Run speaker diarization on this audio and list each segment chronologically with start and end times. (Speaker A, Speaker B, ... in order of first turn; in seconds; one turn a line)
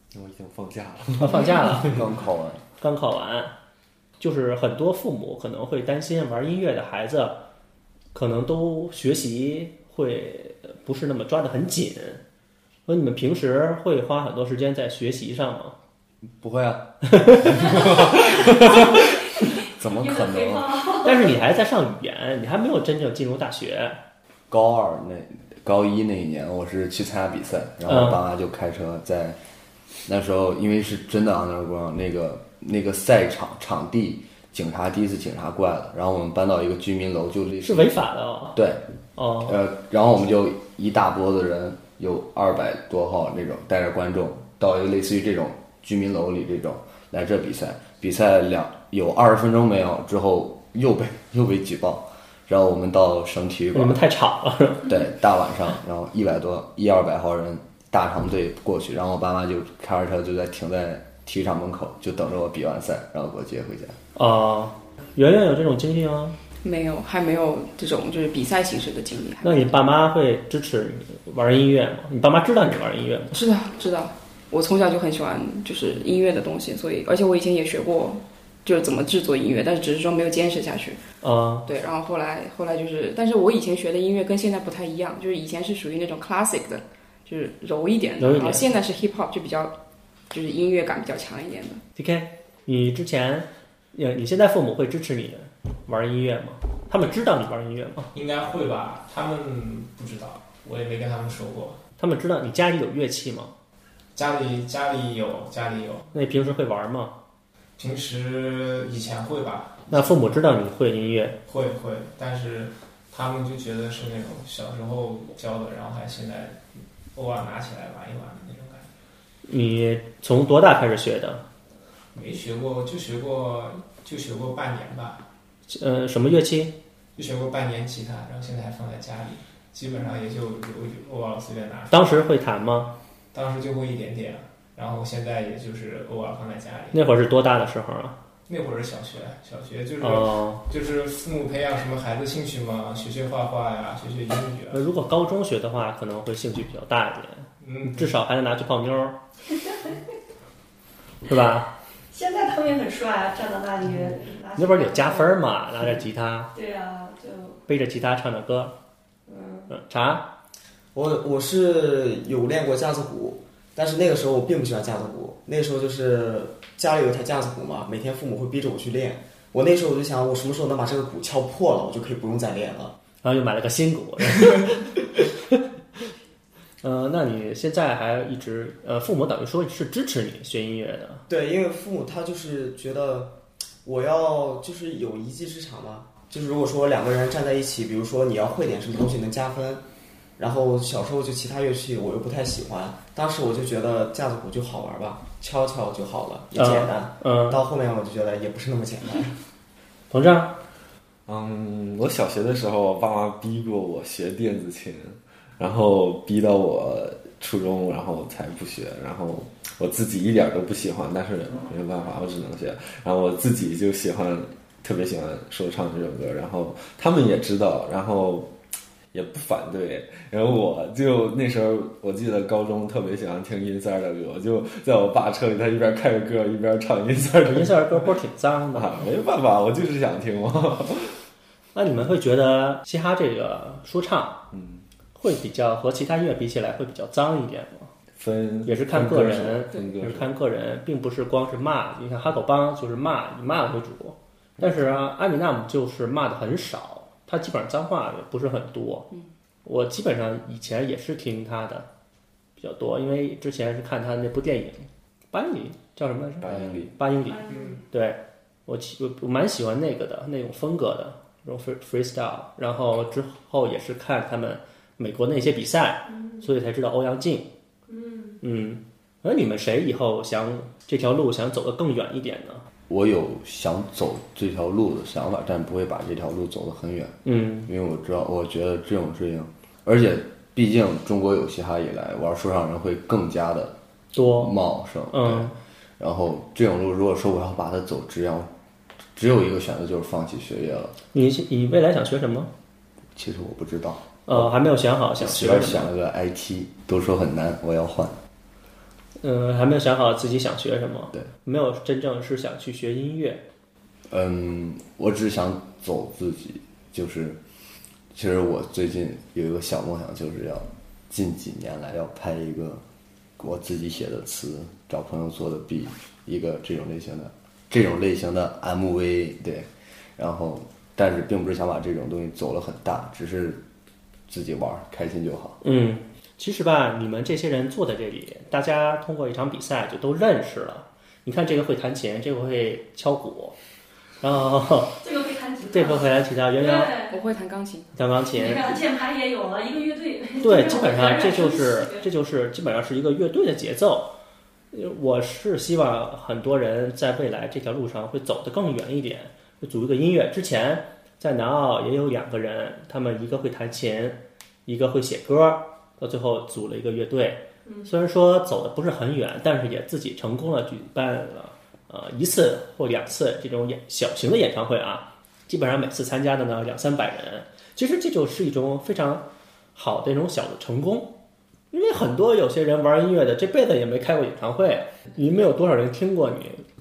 Speaker A: 0.1-2.0
Speaker B: 1.2-1.9
Speaker C: 1.8-2.6
Speaker B: 2.8-3.5
Speaker B: 4.2-7.4
Speaker B: 8.1-12.2
Speaker B: 12.9-15.8
Speaker C: 16.4-19.0
Speaker B: 17.2-17.6
Speaker D: 17.8-21.4
Speaker C: 19.6-20.7
Speaker B: 21.0-24.0
Speaker C: 24.5-29.4
Speaker B: 27.9-28.2
Speaker C: 30.1-38.0
Speaker B: 37.6-38.6
Speaker C: 38.5-38.8
Speaker B: 39.1-39.6
Speaker C: 39.4-54.0
Speaker B: 53.7-54.9
Speaker C: 54.9-64.0
Speaker B: 64.1-66.4
Speaker E: 66.6-69.7
Speaker B: 69.4-73.4
Speaker E: 73.3-81.0
Speaker B: 81.2-81.6
Speaker E: 81.7-89.7
Speaker B: 88.2-88.7
Speaker E: 90.3-91.8
Speaker B: 92.0-98.1
Speaker F: 98.1-101.8
Speaker B: 102.0-103.5
Speaker F: 104.1-106.1
Speaker B: 106.1-107.1
Speaker F: 107.8-110.2
Speaker B: 109.9-111.4
Speaker F: 111.4-118.9
Speaker B: 119.5-121.4
Speaker F: 122.1-125.2
Speaker B: 125.7-126.8
Speaker F: 127.2-132.2
Speaker B: 131.9-132.9
Speaker F: 133.3-137.1
Speaker B: 136.9-138.2
Speaker F: 138.5-144.8
Speaker B: 140.0-140.6
Speaker B: 144.7-149.2
Speaker F: 147.6-148.2
Speaker B: 151.2-151.7
Speaker D: 152.1-155.4
Speaker B: 154.6-156.5
Speaker D: 156.5-157.6
Speaker B: 157.7-158.7
Speaker D: 159.3-159.7
Speaker B: 159.7-160.3
Speaker G: 160.9-172.9
Speaker B: 173.2-175.1
Speaker B: 176.8-181.2
Speaker G: 181.3-189.8
Speaker G: 190.4-199.4
Speaker B: 196.5-197.6
Speaker B: 200.1-200.6
Speaker A: 201.3-218.5
Speaker A: 219.1-228.1
Speaker B: 227.4-229.1
Speaker A: 228.7-231.2
Speaker B: 231.7-234.4
Speaker A: 234.5-234.8
Speaker B: 235.1-237.9
Speaker A: 238.2-240.3
Speaker B: 238.6-249.1
Speaker B: 249.6-251.9
Speaker B: 252.6-267.5
Speaker A: 256.4-256.9
Speaker C: 256.5-256.7
Speaker D: 257.3-257.8
Speaker D: 266.1-266.4
Speaker D: 267.9-268.4
Speaker B: 268.4-272.6
Speaker C: 272.9-288.5
Speaker B: 277.2-277.7
Speaker B: 284.1-284.5
Speaker B: 285.1-285.5
Speaker C: 289.1-290.9
Speaker B: 291.1-292.5
Speaker C: 293.1-294.5
Speaker B: 294.2-295.9
Speaker C: 295.2-298.2
Speaker B: 299.2-303.4
Speaker C: 304.1-307.4
Speaker C: 308.1-312.8
Speaker C: 313.4-323.6
Speaker C: 324.3-325.6
Speaker B: 325.6-333.6
Speaker B: 334.2-335.0
Speaker D: 335.0-337.2
Speaker B: 335.7-336.9
Speaker E: 337.1-337.9
Speaker B: 337.9-338.8
Speaker D: 338.3-342.1
Speaker B: 340.4-344.1
Speaker B: 344.7-371.2
Speaker D: 357.6-357.9
Speaker B: 371.7-376.6